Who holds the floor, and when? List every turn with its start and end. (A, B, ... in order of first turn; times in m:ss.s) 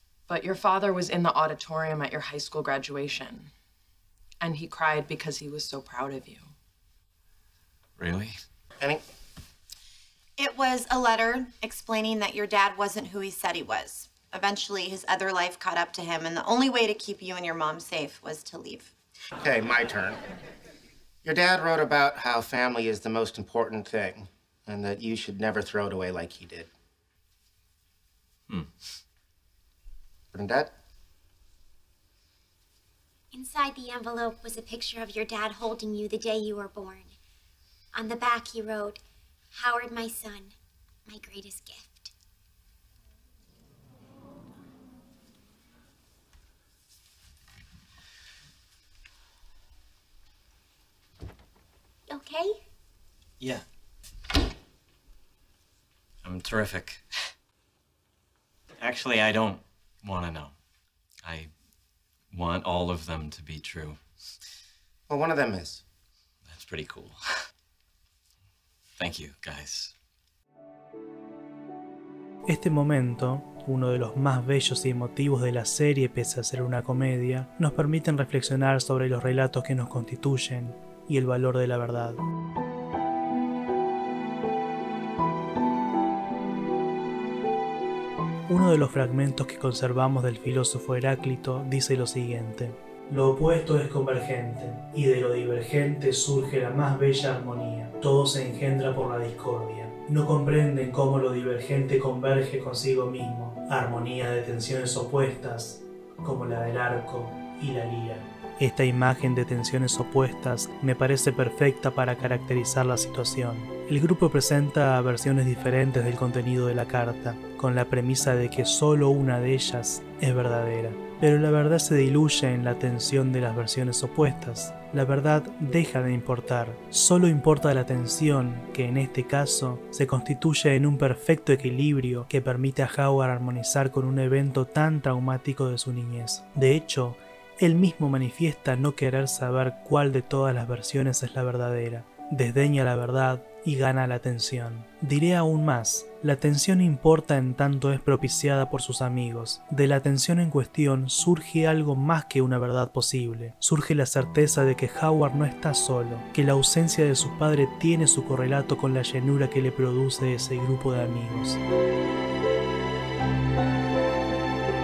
0:00.3-0:03.5 A
0:04.4-0:06.5 A
0:08.0-0:08.4 B
0:10.4-0:18.9 C
0:19.4-0:20.2 D
0:21.2-0:26.7 D
0:30.3-0:30.7 D
0:33.3-0:37.1 E
0:37.9-0:39.0 E
0:39.5-0:40.5 E
0:41.1-0:42.1 E
0:52.1-0:52.6 E
0:56.2-0:57.1 B
0:58.8-1:00.5 B
1:01.2-1:01.5 B
1:02.3-1:04.0 B
1:05.1-1:05.8 D
1:06.5-1:07.2 B
1:09.0-1:09.9 B
1:12.5-1:22.2 F
1:28.5-2:41.6 F